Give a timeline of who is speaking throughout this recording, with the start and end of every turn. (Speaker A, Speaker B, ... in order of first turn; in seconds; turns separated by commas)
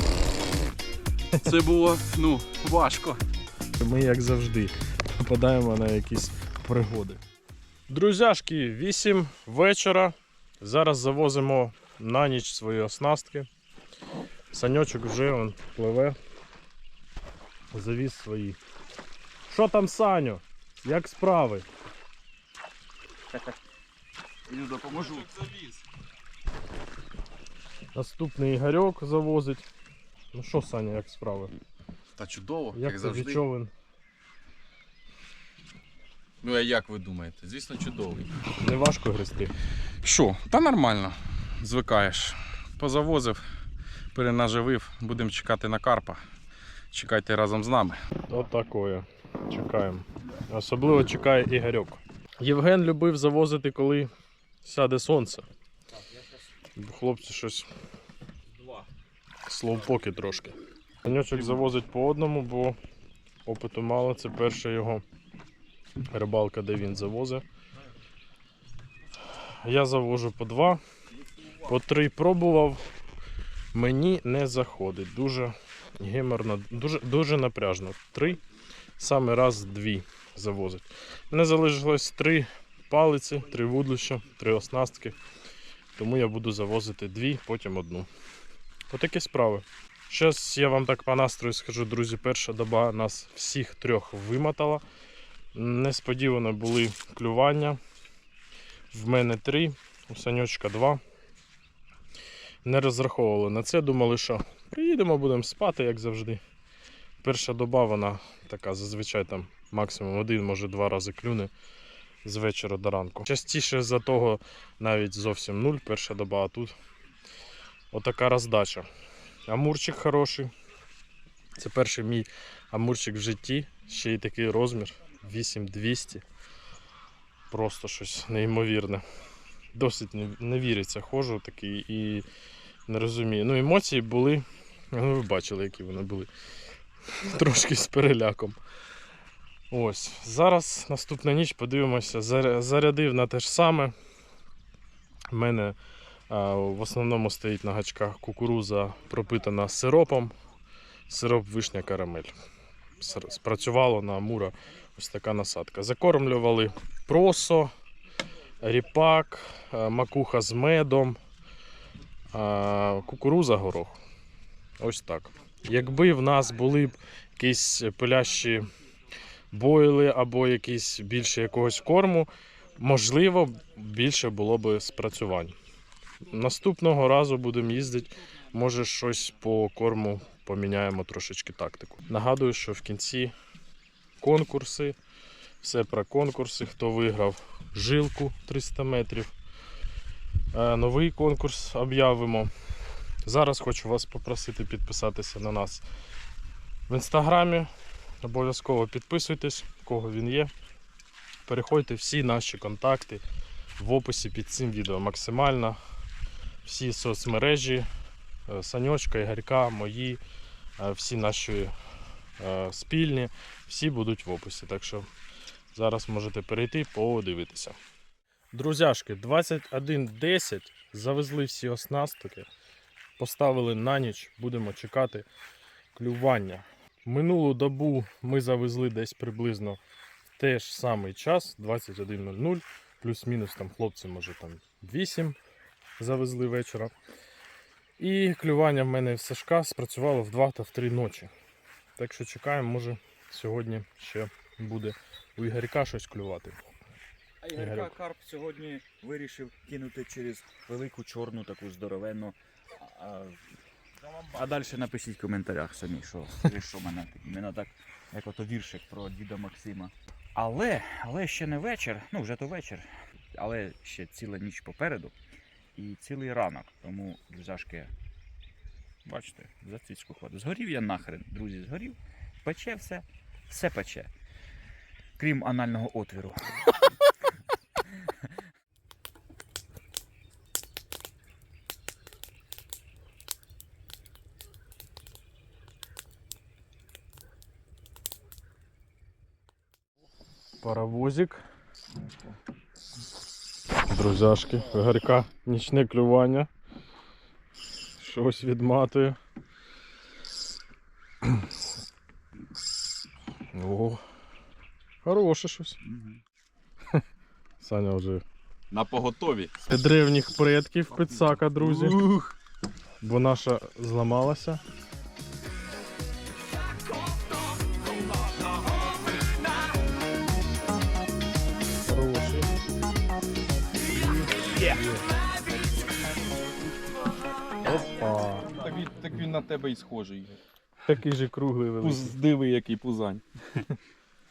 Speaker A: 1.4-3.2, Speaker B: 3.8-7.2, Speaker B: 7.9-13.5, Speaker B: 14.5-16.2, Speaker B: 17.7-18.6, Speaker B: 19.5-21.7, Speaker C: 23.3-23.6, Speaker C: 24.5-25.4, Speaker A: 25.0-25.5, Speaker B: 27.9-29.7, Speaker B: 30.3-31.5, Speaker A: 32.2-33.4, Speaker B: 32.7-33.7, Speaker A: 36.4-38.3, Speaker B: 38.6-39.5, Speaker A: 40.0-43.4, Speaker A: 44.1-46.2, Speaker A: 46.9-48.0, Speaker B: 48.3-54.1, Speaker B: 54.6-55.5, Speaker B: 56.8-57.7, Speaker B: 59.5-62.8, Speaker B: 63.5-65.0, Speaker B: 66.1-67.4, Speaker B: 69.6-70.8, Speaker B: 71.6-72.8, Speaker B: 73.7-78.4, Speaker B: 79.0-85.2, Speaker B: 86.0-88.1, Speaker B: 88.9-94.8, Speaker B: 95.5-97.8, Speaker B: 98.9-101.0, Speaker B: 102.7-106.4, Speaker B: 107.2-111.5, Speaker B: 112.2-116.7, Speaker B: 117.9-118.9, Speaker B: 119.5-120.5, Speaker B: 121.6-126.2, Speaker B: 127.5-129.0, Speaker B: 129.7-132.3, Speaker B: 132.9-136.3, Speaker B: 137.1-138.6, Speaker B: 139.7-143.9, Speaker B: 145.3-145.8, Speaker B: 146.3-150.3, Speaker B: 151.1-152.3, Speaker B: 153.0-157.7, Speaker B: 158.6-161.2, Speaker B: 162.3-164.0, Speaker B: 164.8-168.7, Speaker B: 169.5-175.5, Speaker B: 176.3-183.3, Speaker B: 184.2-185.0, Speaker B: 185.6-189.3, Speaker B: 190.5-192.5, Speaker B: 193.2-195.8, Speaker B: 196.9-197.7, Speaker B: 198.2-200.5, Speaker B: 201.5-203.2, Speaker B: 203.8-205.8, Speaker B: 206.7-207.9, Speaker B: 208.5-210.2, Speaker B: 210.8-211.7, Speaker B: 212.4-215.1, Speaker B: 215.7-217.8, Speaker B: 218.5-222.5, Speaker B: 223.2-225.3, Speaker B: 225.9-229.8, Speaker B: 230.4-235.4, Speaker B: 236.0-236.9, Speaker B: 238.0-241.3, Speaker B: 242.0-246.6, Speaker C: 247.4-253.4, Speaker B: 247.6-247.9, Speaker C: 254.3-265.1, Speaker C: 265.8-267.9, Speaker C: 269.1-274.1, Speaker C: 275.2-276.7, Speaker B: 290.6-291.4, Speaker B: 293.9-296.5, Speaker B: 298.0-299.2, Speaker B: 301.2-301.5, Speaker B: 303.5-304.0, Speaker B: 305.0-305.8, Speaker C: 305.8-306.2, Speaker B: 307.6-308.2, Speaker A: 308.7-309.5, Speaker B: 309.7-312.0, Speaker A: 311.0-312.4, Speaker B: 313.0-314.6, Speaker B: 321.9-322.5, Speaker B: 324.0-325.0, Speaker A: 324.3-324.8, Speaker B: 327.6-328.5, Speaker A: 328.5-330.4, Speaker B: 330.9-332.2, Speaker A: 331.8-333.6